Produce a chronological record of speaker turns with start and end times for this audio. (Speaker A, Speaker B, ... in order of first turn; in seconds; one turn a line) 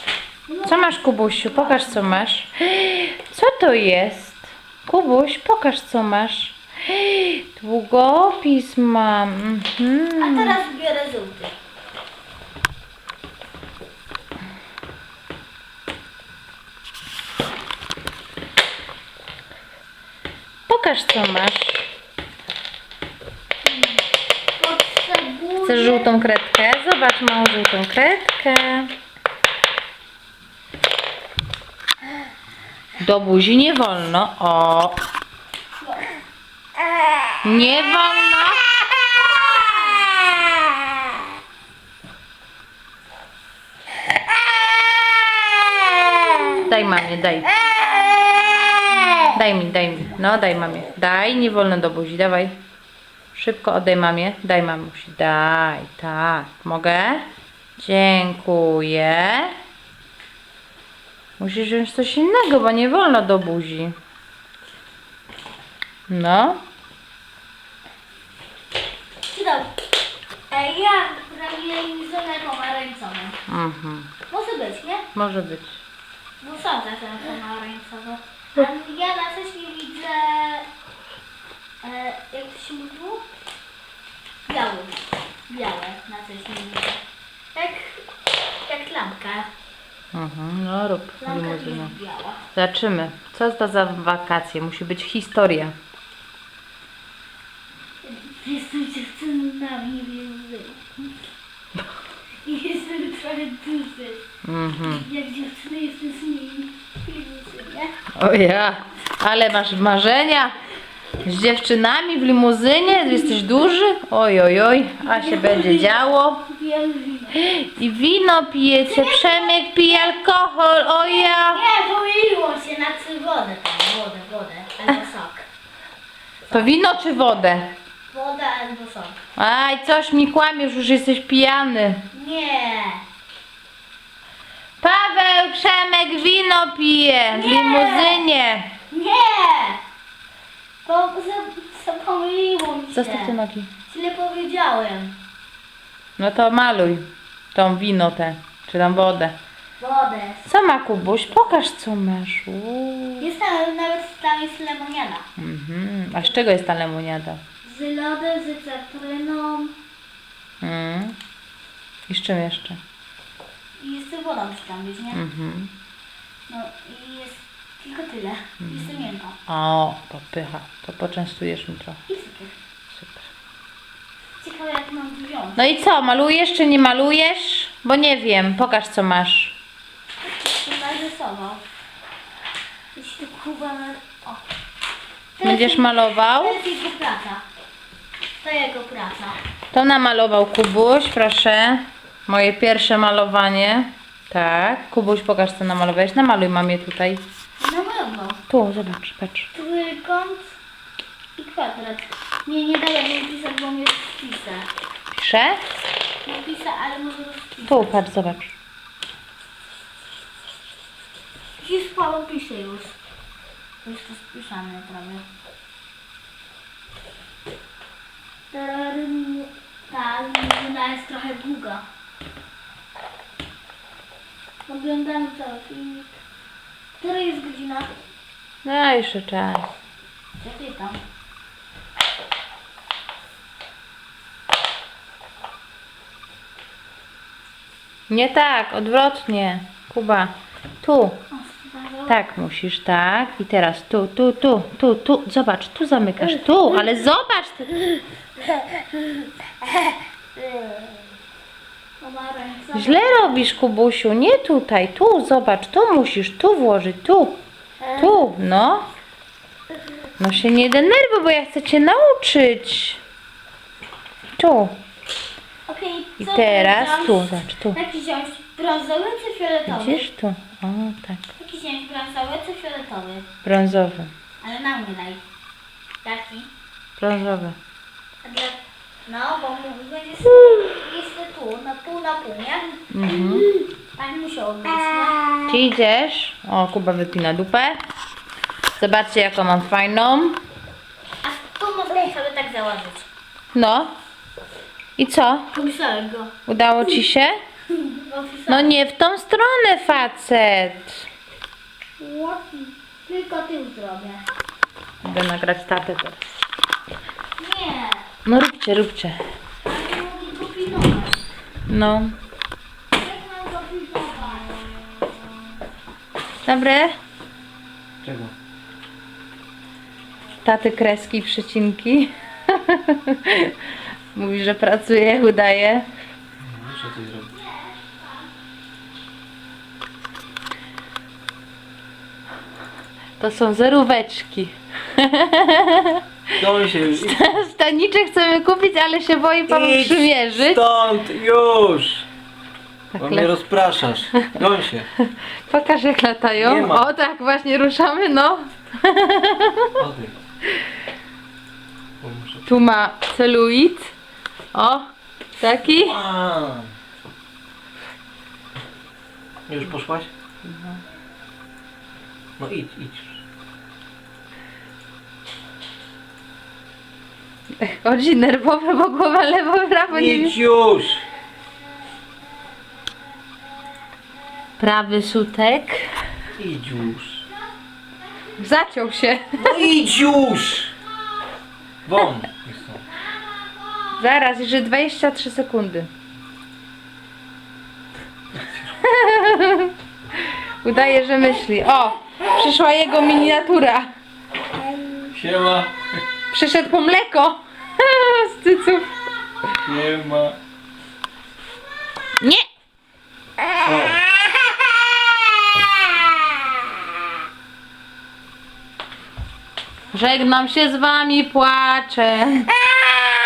Speaker A: 0.5-2.2
Speaker B: 0.7-10.6
Speaker A: 10.2-11.5
Speaker B: 20.7-21.8
Speaker A: 23.6-24.0
Speaker A: 24.6-26.1
Speaker B: 25.6-28.9
Speaker B: 33.0-35.0
Speaker A: 35.8-36.1
Speaker B: 37.4-38.8
Speaker A: 39.3-40.0
Speaker B: 46.6-47.5
Speaker B: 49.2-52.5
Speaker B: 53.3-57.2
Speaker B: 57.8-59.5
Speaker B: 61.4-63.9
Speaker B: 66.1-66.6
Speaker A: 69.3-69.7
Speaker A: 70.5-73.4
Speaker B: 73.5-74.1
Speaker A: 74.3-75.0
Speaker B: 75.1-75.8
Speaker A: 76.4-80.7
Speaker A: 81.8-83.2
Speaker A: 84.5-87.0
Speaker A: 87.5-88.0
Speaker A: 88.7-89.5
Speaker B: 90.1-91.9
Speaker A: 91.2-92.4
Speaker B: 92.5-95.7
Speaker A: 98.0-101.1
Speaker A: 102.4-104.2
Speaker B: 104.4-105.0
Speaker A: 104.8-107.9
Speaker B: 108.2-110.5
Speaker B: 111.2-116.4
Speaker A: 115.0-117.4
Speaker B: 117.3-121.6
Speaker A: 118.8-120.2
Speaker A: 121.0-125.4
Speaker B: 126.5-127.7
Speaker A: 128.1-129.2
Speaker B: 129.4-132.0
Speaker A: 132.1-133.0
Speaker B: 134.8-138.7
Speaker A: 137.3-138.3
Speaker A: 138.9-139.8
Speaker A: 140.8-143.3
Speaker B: 142.9-143.7
Speaker A: 143.9-145.1
Speaker B: 146.2-149.3
Speaker A: 149.8-150.5
Speaker B: 150.4-153.3
Speaker A: 153.2-155.2
Speaker B: 155.4-157.4
Speaker A: 157.6-159.8
Speaker B: 160.6-161.2
Speaker B: 162.1-162.8
Speaker A: 163.8-165.2
Speaker B: 165.1-165.7
Speaker A: 166.5-169.3
Speaker B: 168.6-172.0
Speaker A: 172.1-172.5
Speaker B: 172.9-173.2
Speaker A: 174.4-175.7
Speaker B: 175.6-179.5
Speaker A: 180.2-181.6
Speaker A: 182.9-184.4
Speaker A: 185.4-187.4
Speaker B: 185.4-186.6
Speaker A: 188.4-189.4
Speaker B: 189.7-197.2
Speaker A: 197.6-198.4
Speaker B: 198.5-199.5
Speaker A: 199.5-200.5
Speaker A: 201.4-204.7
Speaker B: 205.1-205.6
Speaker A: 206.2-208.0
Speaker B: 207.7-208.5
Speaker A: 211.6-212.9
Speaker A: 213.8-215.2
Speaker A: 218.5-221.8
Speaker A: 224.7-226.1
Speaker A: 227.0-227.9
Speaker B: 228.6-229.7
Speaker A: 230.4-231.0
Speaker B: 238.1-241.2
Speaker A: 241.3-242.2
Speaker B: 242.1-247.8
Speaker A: 250.4-250.9
Speaker A: 252.0-253.4
Speaker B: 252.7-257.4
Speaker A: 257.8-258.2
Speaker B: 258.0-258.9
Speaker B: 260.2-263.0
Speaker B: 264.4-264.8
Speaker A: 265.6-270.1
Speaker B: 266.2-267.8
Speaker B: 269.7-271.2
Speaker A: 271.4-273.3
Speaker B: 273.4-274.1
Speaker A: 274.4-275.2
Speaker A: 276.0-276.5
Speaker B: 277.0-277.6
Speaker A: 278.2-285.2
Speaker B: 282.9-283.5
Speaker B: 285.5-287.8
Speaker B: 288.8-290.4
Speaker A: 291.2-293.1
Speaker B: 293.5-293.9
Speaker B: 295.0-295.5
Speaker A: 295.5-296.3
Speaker B: 296.5-297.4
Speaker A: 297.7-298.7
Speaker B: 298.5-301.0
Speaker A: 302.0-304.2
Speaker B: 305.0-306.2
Speaker A: 307.4-308.1
Speaker B: 308.2-309.2
Speaker A: 309.6-311.2
Speaker B: 311.7-312.1
Speaker A: 312.9-314.6
Speaker B: 316.4-317.0
Speaker C: 318.0-318.3
Speaker B: 320.4-323.5
Speaker B: 324.1-325.9
Speaker C: 326.4-327.3
Speaker A: 327.3-328.1
Speaker B: 333.2-336.0
Speaker C: 336.4-337.3
Speaker B: 336.9-340.6
Speaker C: 339.5-342.0
Speaker B: 342.9-343.3
Speaker C: 343.0-344.9
Speaker B: 345.0-349.8
Speaker C: 346.4-346.9
Speaker C: 349.8-350.1
Speaker C: 352.0-352.4
Speaker B: 352.4-353.9
Speaker B: 354.5-354.9
Speaker B: 355.4-356.0
Speaker C: 355.6-356.7
Speaker C: 359.5-360.1
Speaker B: 360.4-360.8
Speaker C: 362.4-363.2
Speaker B: 367.6-370.4
Speaker C: 369.9-371.0
Speaker B: 374.6-375.9
Speaker C: 376.4-377.2
Speaker B: 378.4-379.6
Speaker C: 379.4-380.7
Speaker C: 381.8-382.8
Speaker B: 383.9-385.9
Speaker B: 388.8-393.9
Speaker C: 395.1-395.7
Speaker B: 396.3-398.9
Speaker C: 399.6-400.4
Speaker B: 402.2-402.4
Speaker C: 403.6-404.0
Speaker B: 409.9-412.5